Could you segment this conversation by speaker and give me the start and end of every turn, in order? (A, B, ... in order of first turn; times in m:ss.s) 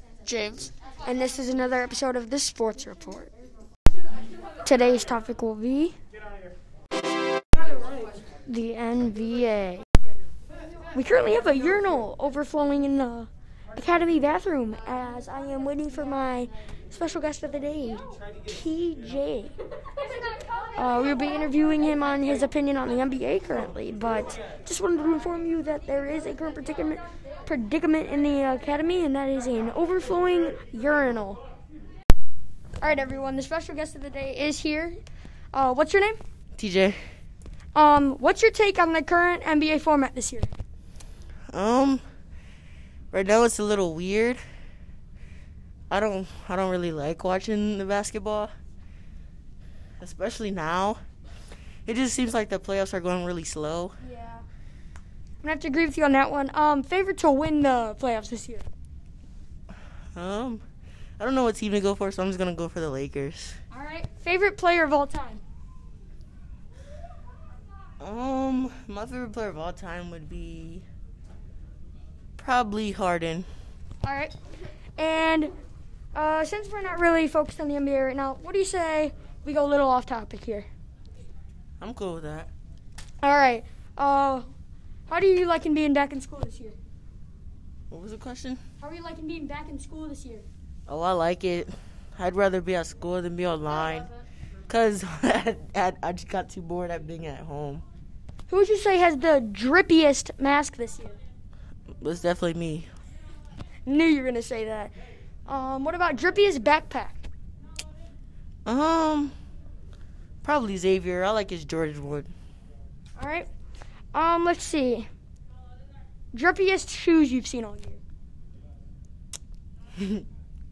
0:00.5-0:03.3 A
0:04.6-0:06.0 A
0:08.5-0:09.8 A
0:10.9-0:19.5 A
0:20.8-0:31.4 A
0:32.8-0:35.0 A
0:35.5-0:36.2 A
0:36.6-0:37.0 B
0:37.8-0:40.5 A
0:41.5-0:42.0 B
0:43.1-0:44.4 B
0:45.9-0:48.5 B
0:50.0-0:51.0 B
0:51.9-0:54.0 B
0:54.0-0:54.4 A
0:55.4-0:58.7 A
1:00.2-1:00.6 B
1:01.2-1:03.6 B
1:03.7-1:05.4 A
1:08.0-1:10.9 B
1:12.4-1:13.5 B
1:14.0-1:14.3 A
1:15.0-1:15.5 A
1:16.1-1:20.7 A
1:21.8-1:22.5 B
1:23.2-1:24.5 A
1:25.1-1:26.8 A
1:27.9-1:28.6 B
1:28.8-1:30.5 A
1:30.9-1:34.1 B
1:34.7-1:37.8 B
1:38.5-1:41.2 A
1:42.0-1:42.9 B
1:43.9-1:44.9 A
1:45.5-1:47.3 A
1:48.6-1:49.3 B
1:50.4-1:52.3 B
1:53.2-1:53.5 A
1:54.1-1:55.1 A
1:56.3-1:58.0 A
2:00.0-2:00.2 B